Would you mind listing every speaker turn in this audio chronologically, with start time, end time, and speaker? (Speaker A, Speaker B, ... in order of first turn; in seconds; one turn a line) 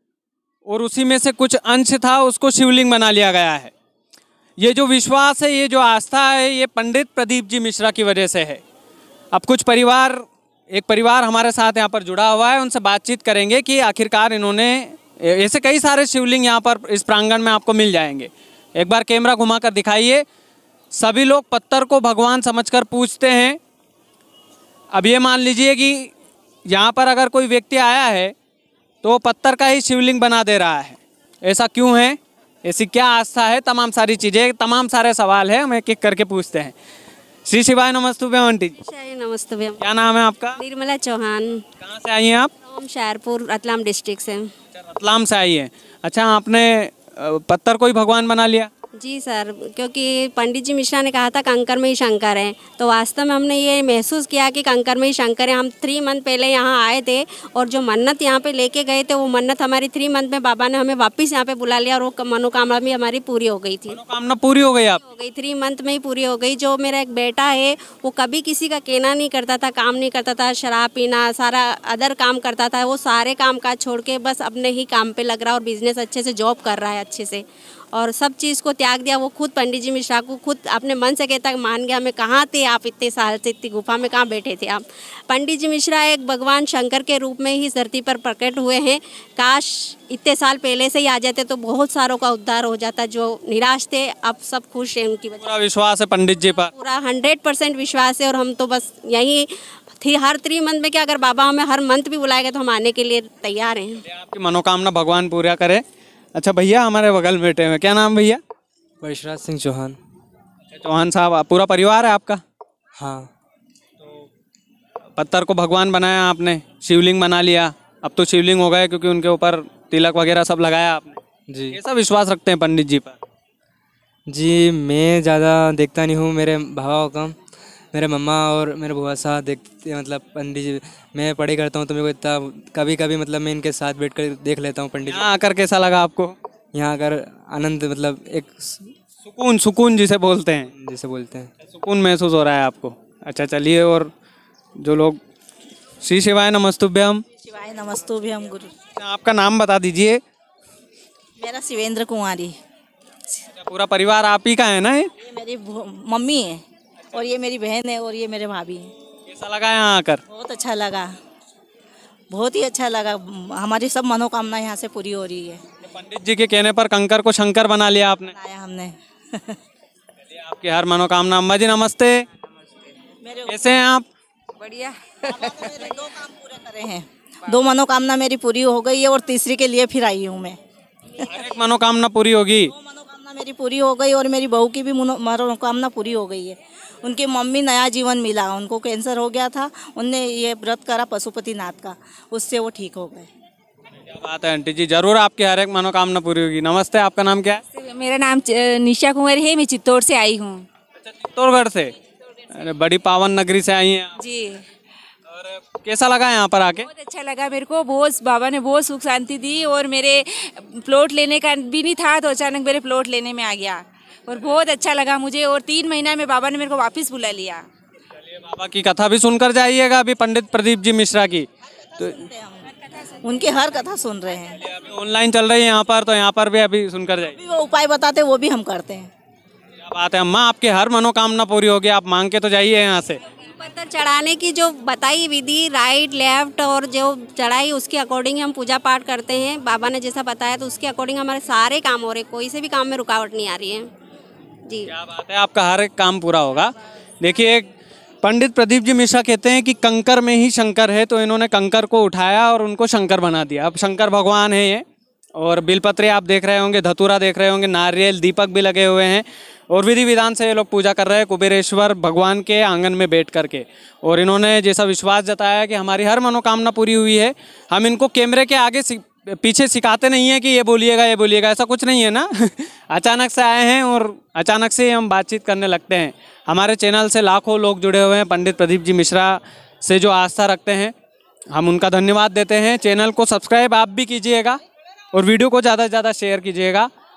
Speaker A: 0.7-3.7
Speaker A: 4.6-8.6
Speaker A: 9.3-20.2
Speaker A: 20.9-23.6
Speaker A: 24.9-26.1
Speaker A: 26.6-28.3
Speaker A: 29.0-36.7
Speaker A: 37.5-38.8
Speaker B: 38.8-39.8
Speaker A: 39.8-40.6
Speaker B: 40.6-41.6
Speaker A: 41.8-42.5
Speaker B: 42.7-44.5
Speaker A: 44.8-48.7
Speaker B: 49.0-64.0
Speaker A: 63.9-65.0
Speaker B: 65.0-95.4
Speaker A: 95.4-96.7
Speaker B: 96.5-104.0
Speaker A: 104.0-105.8
Speaker A: 106.3-108.4
Speaker C: 109.0-110.0
Speaker A: 110.7-112.4
Speaker C: 113.0-113.3
Speaker A: 115.2-121.2
Speaker A: 121.7-123.2
Speaker C: 124.3-127.3
Speaker C: 127.9-135.2
Speaker A: 135.1-136.3
Speaker C: 136.7-138.9
Speaker A: 139.2-140.7
Speaker C: 140.8-141.5
Speaker A: 141.6-144.1
Speaker A: 144.8-145.2
Speaker A: 146.0-147.2
Speaker D: 147.4-148.7
Speaker A: 149.0-150.2
Speaker D: 151.4-152.6
Speaker A: 153.6-155.1
Speaker D: 155.2-158.9
Speaker A: 159.3-160.2
Speaker D: 160.3-161.1
Speaker D: 162.3-165.6
Speaker A: 165.9-168.3
Speaker D: 168.3-169.6
Speaker A: 170.3-172.2
Speaker D: 173.2-173.6
Speaker A: 173.5-174.1
Speaker E: 174.6-175.3
Speaker D: 175.2-180.6
Speaker A: 181.2-182.7
Speaker D: 182.7-193.3
Speaker A: 194.1-197.6
Speaker E: 197.7-200.7
Speaker A: 201.2-201.9
Speaker A: 202.5-204.2
Speaker E: 204.2-204.6
Speaker A: 205.3-206.9
Speaker E: 206.9-217.7
Speaker A: 218.3-221.5
Speaker D: 222.0-224.6
Speaker A: 224.6-227.4
Speaker D: 227.4-229.1
Speaker A: 229.8-233.2
Speaker B: 233.4-243.9
Speaker A: 244.9-247.7
Speaker A: 248.2-254.8
Speaker A: 255.3-280.9
Speaker A: 281.5-284.6
Speaker A: 285.1-286.9